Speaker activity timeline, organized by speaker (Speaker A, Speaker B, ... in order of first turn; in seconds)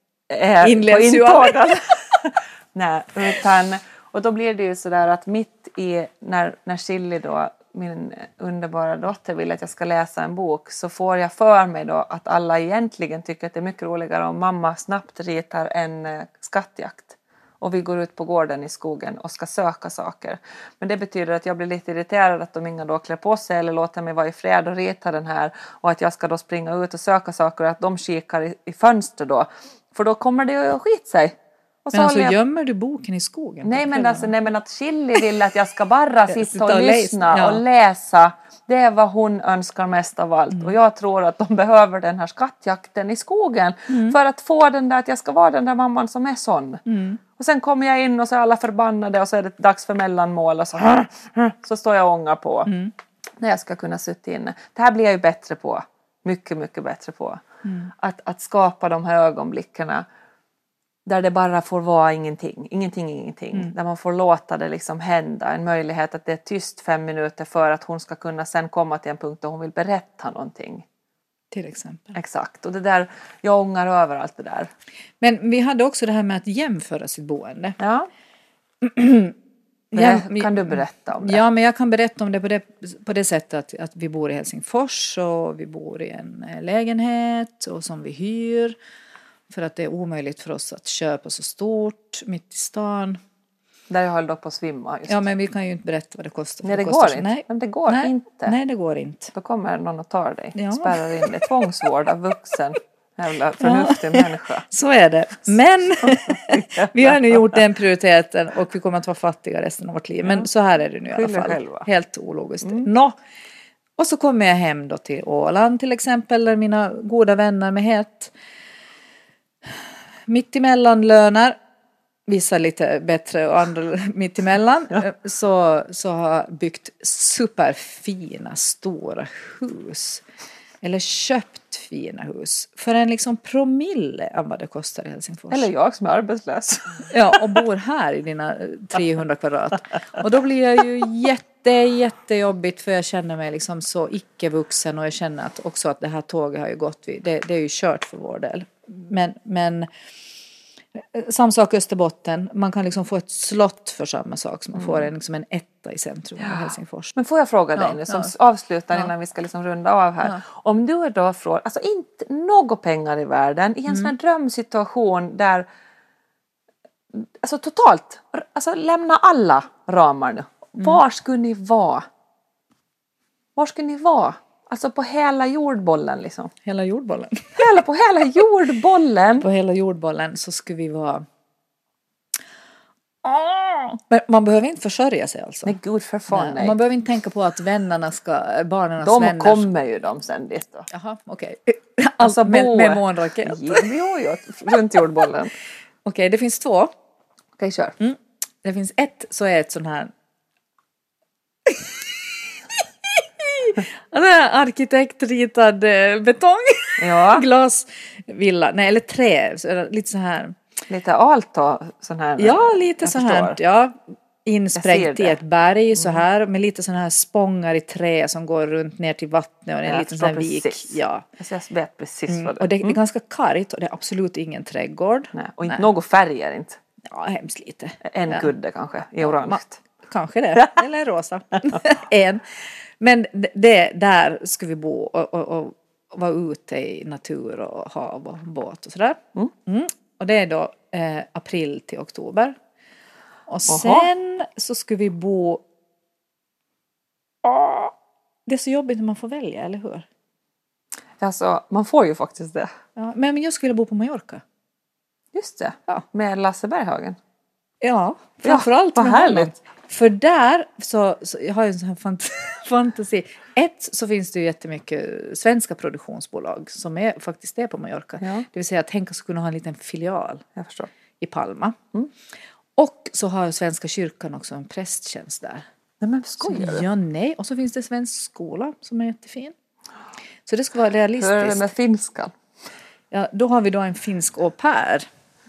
Speaker A: 0.3-32.4, 33.6-46.8, 47.4-52.7, 53.4-57.4, 58.0-60.0, 61.0-70.8, 72.1-74.7, 77.8-78.1, 79.9-81.4, 93.9-95.2, 96.6-98.5, 99.3-104.7, 106.0-107.6, 110.2-110.5, 111.1-111.9, 135.5-137.6, 154.8-155.1, 156.4-165.7, 167.1-172.1, 173.6-176.5, 177.6-179.5, 185.6-186.8, 189.0-190.9, 192.2-195.5, 197.6-198.0, 207.0-207.4, 210.9-213.6, 214.7-215.4, 215.9-216.2, 219.8-223.0, 225.3-226.8, 228.0-229.8, 243.7-244.1, 251.2-252.7, 255.3-257.2, 258.4-259.5, 268.2-268.4, 270.6-270.9, 276.0-276.9, 281.2-282.3
Speaker B: 0.6-1.8, 31.9-34.3, 36.3-37.6, 43.9-44.2, 46.9-47.2, 52.7-52.9, 57.6-57.9, 71.5-72.2, 75.2-77.8, 78.8-79.3, 79.9-88.8, 89.5-93.2, 95.1-99.3, 100.5-101.5, 103.6-113.2, 114.0-118.3, 120.3-121.6, 122.3-130.2, 130.8-135.7, 137.1-149.9, 150.9-157.2, 157.8-158.3, 176.6-177.7, 179.4-181.2, 183.2-185.8, 186.3-189.7, 190.9-193.9, 196.0-196.9, 198.0-200.1, 201.7-202.0, 202.7-210.6, 212.4-221.2, 222.3-225.9, 227.0-228.5, 229.2-242.6, 243.5-245.6, 247.4-247.9, 248.5-250.1, 252.9-254.4, 257.8-270.5, 271.2-271.8, 272.8-275.6, 276.4-279.5, 280.4-281.7, 283.1-285.1